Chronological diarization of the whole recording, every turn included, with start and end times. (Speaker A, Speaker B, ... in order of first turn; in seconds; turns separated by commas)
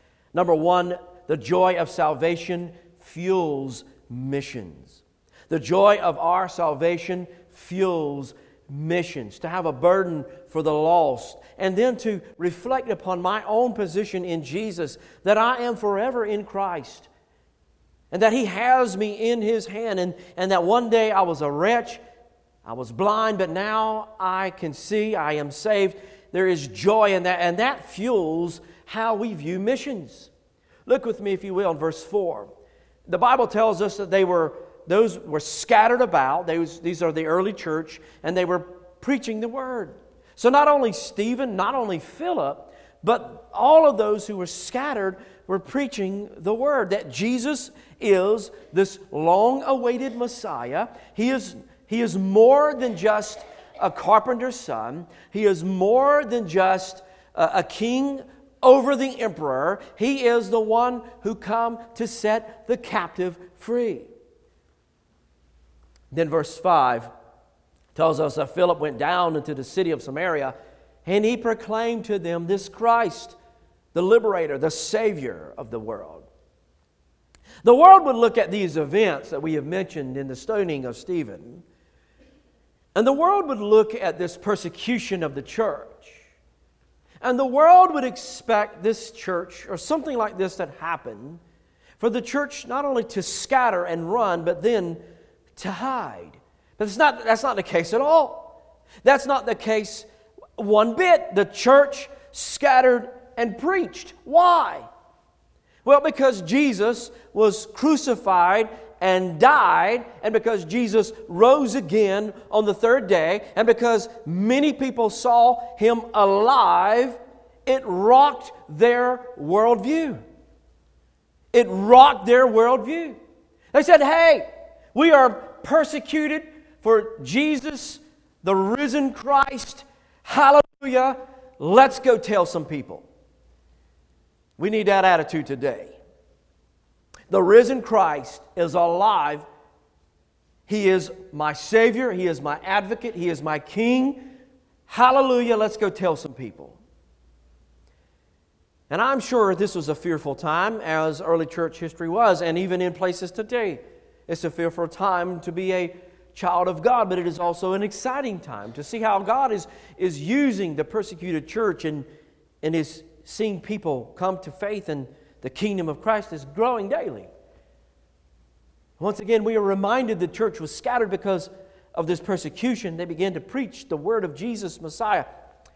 Speaker A: 0.3-17.1, Speaker A: 18.1-22.0, Speaker A: 22.6-30.3, Speaker A: 30.9-32.5, Speaker A: 33.1-64.1, Speaker A: 66.1-67.1, Speaker A: 68.0-73.4, Speaker A: 73.9-76.3, Speaker A: 77.6-81.6, Speaker A: 83.0-86.2, Speaker A: 87.2-91.4, Speaker A: 92.0-95.0, Speaker A: 95.5-104.9, Speaker A: 105.8-120.2, Speaker A: 121.5-123.2, Speaker A: 123.7-133.0, Speaker A: 134.6-136.0, Speaker A: 137.3-139.5, Speaker A: 140.7-144.2, Speaker A: 144.9-146.8, Speaker A: 148.9-162.1, Speaker A: 162.6-167.3, Speaker A: 169.0-175.3